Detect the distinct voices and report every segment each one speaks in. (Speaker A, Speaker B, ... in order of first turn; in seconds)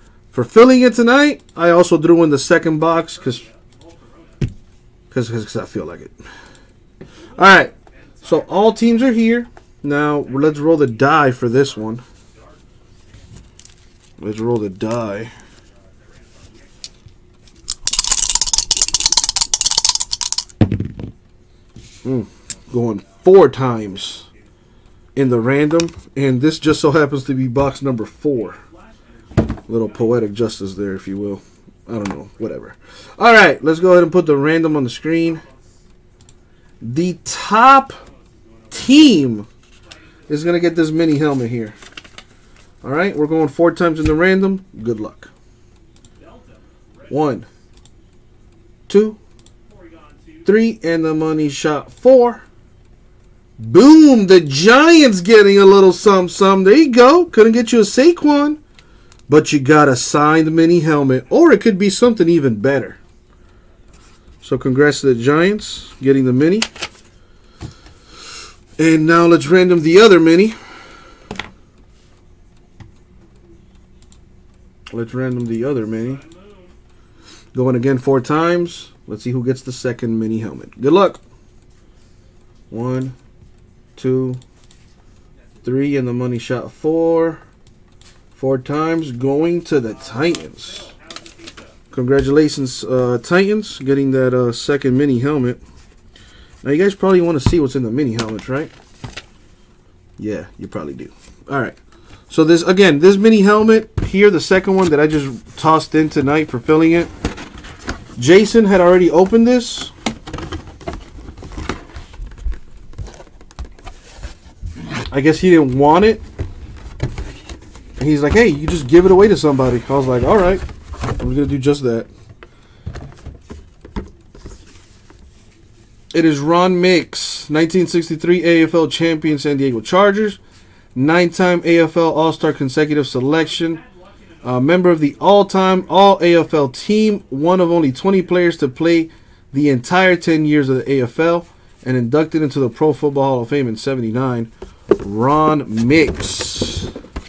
Speaker A: 0.3-3.4, 5.1-6.2, 7.3-7.7, 8.2-12.0, 14.2-15.3, 22.0-24.3, 25.1-28.6, 29.7-35.4, 36.8-38.0, 38.7-39.5, 40.3-41.8, 42.8-45.3, 47.1-47.5, 48.9-49.2, 50.4-52.4, 53.6-58.6, 59.3-63.0, 64.4-66.7, 68.8-70.6, 74.9-76.2, 77.5-81.2, 82.7-83.2, 84.0-84.4, 85.6-87.4, 88.3-90.9, 91.9-95.6, 96.6-98.7, 100.2-101.8, 102.3-107.1, 108.2-109.9, 115.1-116.2, 118.0-120.6, 121.2-122.1, 126.1-130.4, 130.9-133.8, 134.4-146.9
Speaker B: 3.1-4.5, 7.2-9.4, 10.0-13.4, 15.5-17.1, 22.5-24.6, 28.3-30.3, 35.0-35.9, 37.9-40.9, 46.0-47.6, 49.6-50.6, 75.8-76.8, 89.8-91.8, 133.3-136.1